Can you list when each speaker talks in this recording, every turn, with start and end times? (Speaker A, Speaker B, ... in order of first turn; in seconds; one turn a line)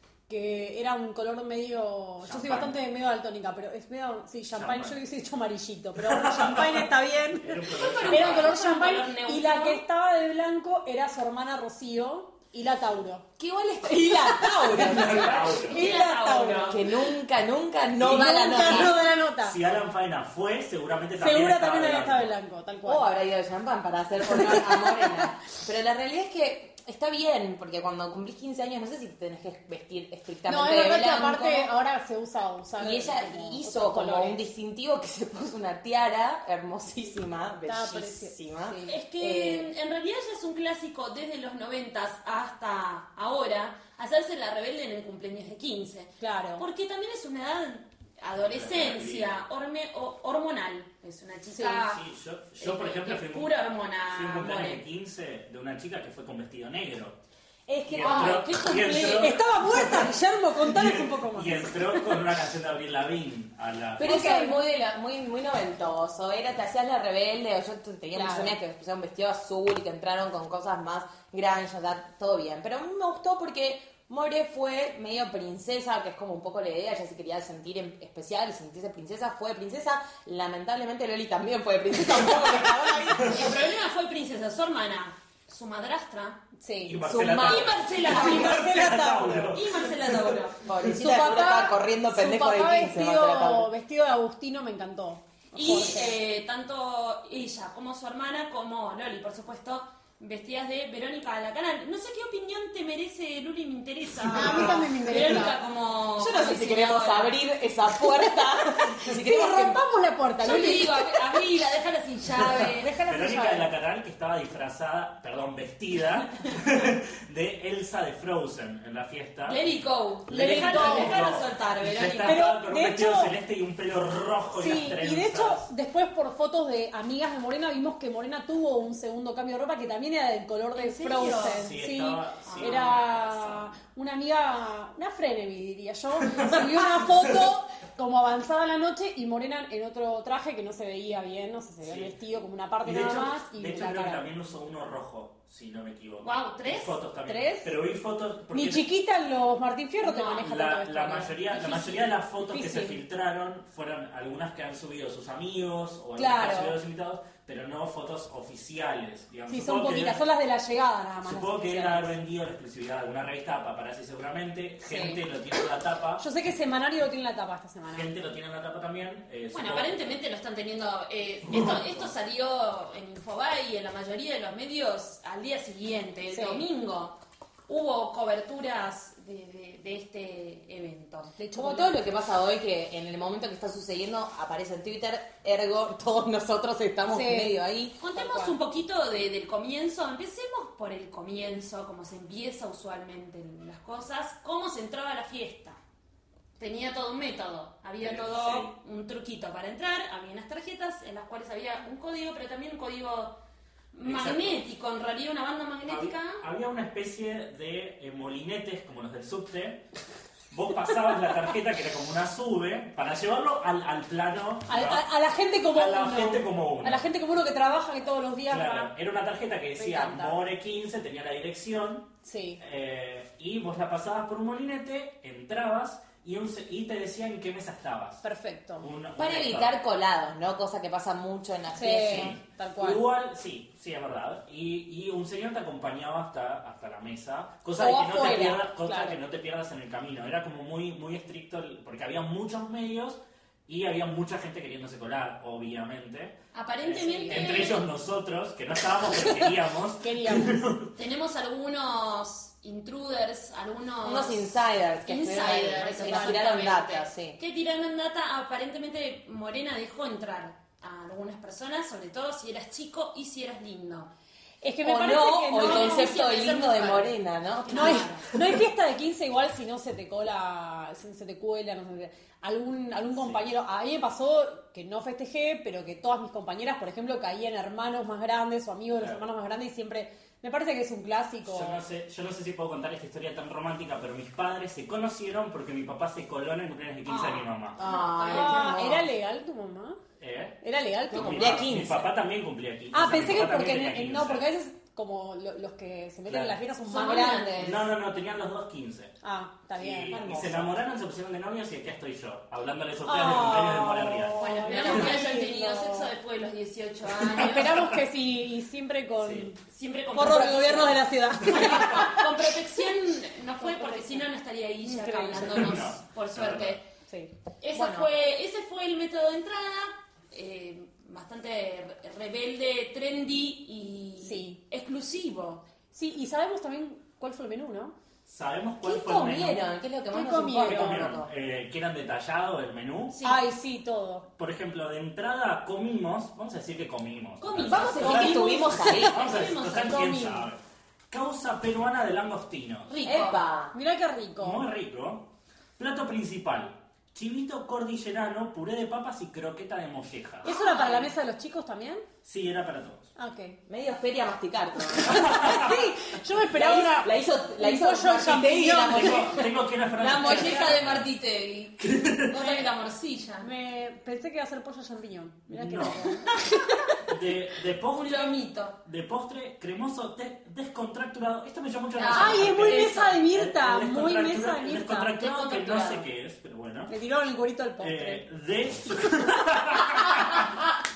Speaker A: 0.3-13.2
Speaker B: 2.2-2.8
Speaker B: 4.5-5.0
Speaker B: 6.0-8.6
Speaker C: 7.7-9.8
Speaker D: 13.4-15.6
Speaker A: 14.4-17.1
Speaker B: 14.7-15.9
Speaker C: 15.0-16.8
Speaker D: 16.7-19.0
Speaker A: 18.0-19.6
Speaker B: 18.1-22.3
Speaker A: 21.2-23.1
Speaker D: 22.9-31.7
Speaker A: 30.5-34.4
Speaker D: 32.8-39.7
Speaker A: 37.7-39.0
Speaker C: 38.9-52.0
Speaker A: 46.2-46.7
Speaker B: 48.4-49.4
Speaker A: 51.5-51.9
Speaker B: 51.8-53.5
Speaker C: 52.6-54.8
Speaker B: 54.1-57.2
Speaker D: 57.7-58.6
Speaker B: 57.9-64.4
Speaker C: 58.0-59.1
Speaker A: 58.0-62.2
Speaker D: 64.0-83.5
Speaker A: 64.0-64.6
Speaker A: 68.1-68.6
Speaker C: 83.1-86.4
Speaker A: 86.6-87.0
Speaker B: 86.9-91.0
Speaker D: 87.0-88.5
Speaker C: 87.4-88.7
Speaker A: 88.1-89.8
Speaker C: 89.5-90.6
Speaker D: 90.6-93.7
Speaker A: 90.9-96.2
Speaker C: 95.5-107.4
Speaker A: 104.3-105.6
Speaker D: 106.2-109.8
Speaker A: 108.2-111.1
Speaker C: 110.4-112.9
Speaker A: 112.8-113.7
Speaker B: 113.0-119.6
Speaker C: 119.5-122.4
Speaker B: 120.3-125.7
Speaker A: 120.3-121.2
Speaker A: 122.2-123.3
Speaker A: 124.6-144.3
Speaker C: 130.8-131.7
Speaker B: 131.3-133.4
Speaker C: 132.4-133.2
Speaker B: 136.3-137.2
Speaker B: 141.8-142.2
Speaker B: 142.8-148.8
Speaker C: 146.2-147.0
Speaker A: 147.3-147.7
Speaker A: 148.5-153.0
Speaker C: 150.0-150.4
Speaker B: 150.4-160.2
Speaker C: 151.6-152.0
Speaker A: 156.2-156.8
Speaker A: 159.5-162.2
Speaker B: 161.2-166.2
Speaker A: 164.9-165.2
Speaker A: 166.2-168.2
Speaker B: 167.9-170.2
Speaker C: 169.5-177.2
Speaker B: 171.5-172.1
Speaker A: 176.3-176.7
Speaker C: 177.7-181.3
Speaker A: 181.4-182.0
Speaker D: 181.5-188.0
Speaker A: 187.1-187.6
Speaker C: 188.0-195.8
Speaker A: 188.1-188.6
Speaker C: 196.6-203.3
Speaker B: 198.0-198.7
Speaker C: 203.9-206.4
Speaker B: 204.0-204.6
Speaker B: 205.9-209.8
Speaker B: 210.5-215.1
Speaker A: 214.7-218.9
Speaker B: 215.7-217.1
Speaker B: 218.5-228.2
Speaker A: 219.8-220.4
Speaker A: 222.2-222.6
Speaker A: 228.2-228.9
Speaker B: 228.8-229.8
Speaker D: 229.2-232.3
Speaker A: 231.7-233.0
Speaker B: 232.0-250.9
Speaker A: 237.8-239.2
Speaker C: 246.5-247.9
Speaker A: 246.9-247.8
Speaker A: 250.0-250.7
Speaker C: 251.0-254.5
Speaker D: 254.0-257.4
Speaker C: 255.0-264.1
Speaker A: 255.8-256.4
Speaker A: 264.6-266.1
Speaker D: 264.8-268.1
Speaker C: 265.5-268.3
Speaker A: 267.7-281.8
Speaker B: 273.1-273.4
Speaker B: 281.4-287.8
Speaker C: 287.1-288.8
Speaker D: 287.8-289.1
Speaker A: 288.2-290.0
Speaker B: 290.2-290.6
Speaker A: 290.6-291.7
Speaker B: 291.1-294.4
Speaker D: 291.1-292.1
Speaker A: 292.9-297.8
Speaker B: 296.3-296.6
Speaker C: 296.9-297.8
Speaker D: 297.2-297.5
Speaker B: 297.5-299.1
Speaker A: 299.2-300.2
Speaker B: 299.8-305.1
Speaker D: 300.1-300.8
Speaker A: 303.1-306.1
Speaker C: 304.4-307.9
Speaker A: 307.3-309.6
Speaker B: 309.2-309.5
Speaker C: 309.7-316.8
Speaker A: 310.1-312.5
Speaker A: 313.6-314.3
Speaker A: 314.8-315.8
Speaker B: 315.4-316.8
Speaker C: 317.6-325.6
Speaker D: 317.7-318.1
Speaker A: 324.2-324.6
Speaker A: 325.9-327.9
Speaker B: 328.3-329.7
Speaker D: 328.8-331.3
Speaker A: 330.1-331.1
Speaker B: 330.6-333.2
Speaker C: 333.1-333.4
Speaker A: 333.2-334.3
Speaker B: 334.4-340.6
Speaker C: 337.4-340.3
Speaker D: 337.6-339.2
Speaker A: 339.8-340.5
Speaker B: 341.1-343.0
Speaker C: 342.9-343.4
Speaker D: 343.0-343.8
Speaker A: 343.7-344.6
Speaker B: 344.4-345.2
Speaker B: 345.8-350.5
Speaker A: 350.4-352.1
Speaker C: 350.5-351.0
Speaker B: 352.2-353.1
Speaker A: 353.2-353.6
Speaker D: 353.7-355.8
Speaker A: 355.1-359.3
Speaker B: 355.1-355.8
Speaker D: 356.5-359.5
Speaker B: 358.8-361.1
Speaker C: 360.0-361.8
Speaker A: 360.2-360.7
Speaker B: 361.8-362.5
Speaker C: 362.3-363.5
Speaker A: 363.4-366.8
Speaker B: 365.5-366.1
Speaker B: 367.1-376.9
Speaker C: 367.9-368.8
Speaker C: 372.0-373.1
Speaker A: 372.1-375.1
Speaker C: 375.2-376.1
Speaker A: 376.9-378.2
Speaker B: 377.8-380.6